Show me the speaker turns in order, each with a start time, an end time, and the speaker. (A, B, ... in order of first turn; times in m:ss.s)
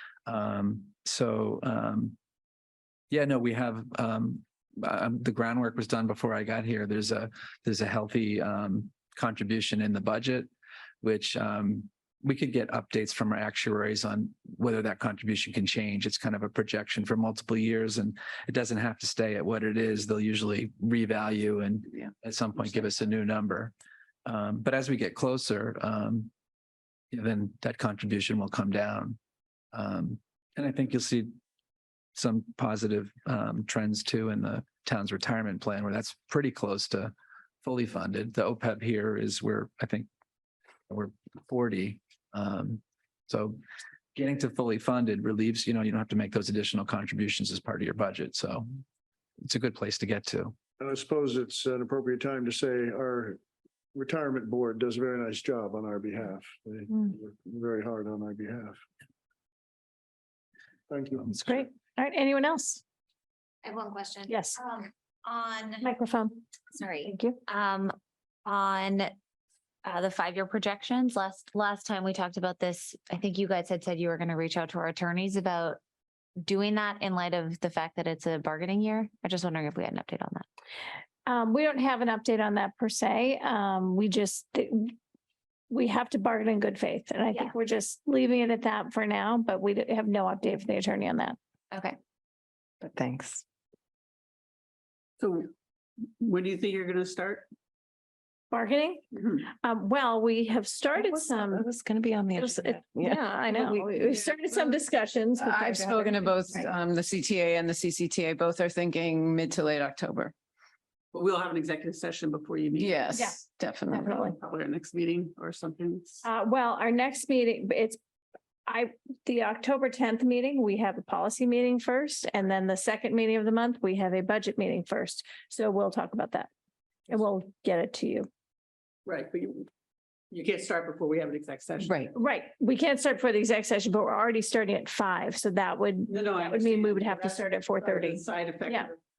0:00.2-0:02.2 A
0:03.1-0:10.5 A
0:11.0-0:23.7 A
0:24.2-0:26.3 A
0:27.1-0:29.2 A
0:29.7-0:31.3 A
0:32.1-0:40.1 A
0:40.9-0:43.6 A
0:44.1-0:48.6 A
0:49.4-0:50.6 A
0:50.8-0:53.4 B
0:53.9-0:58.8 B
1:00.9-1:01.6 B
1:01.2-1:01.6 A
1:01.5-1:02.8 C
1:03.6-1:05.8 D
1:04.3-1:04.6 C
1:05.8-1:06.4 C
1:06.7-1:09.1 D
1:07.0-1:07.4 C
1:09.8-1:15.8 D
1:16.4-1:20.4 D
1:21.2-1:25.0 C
1:25.7-1:31.4 C
1:31.7-1:32.0 D
1:32.8-1:33.4 E
1:35.2-1:35.5 F
1:36.2-1:37.5 F
1:38.5-1:41.7 C
1:40.9-1:43.8 E
1:42.3-1:46.7 C
1:44.1-1:44.8 F
1:45.4-1:50.3 G
1:51.1-1:53.0 F
1:52.8-1:54.2 G
1:53.1-1:54.4 C
1:54.1-1:56.2 F
1:56.2-1:58.0 C
1:58.7-2:06.5 C
2:07.1-2:08.3 C
2:09.0-2:09.7 F
2:10.3-2:12.1 F
2:12.1-2:18.9 C
2:16.1-2:19.0 F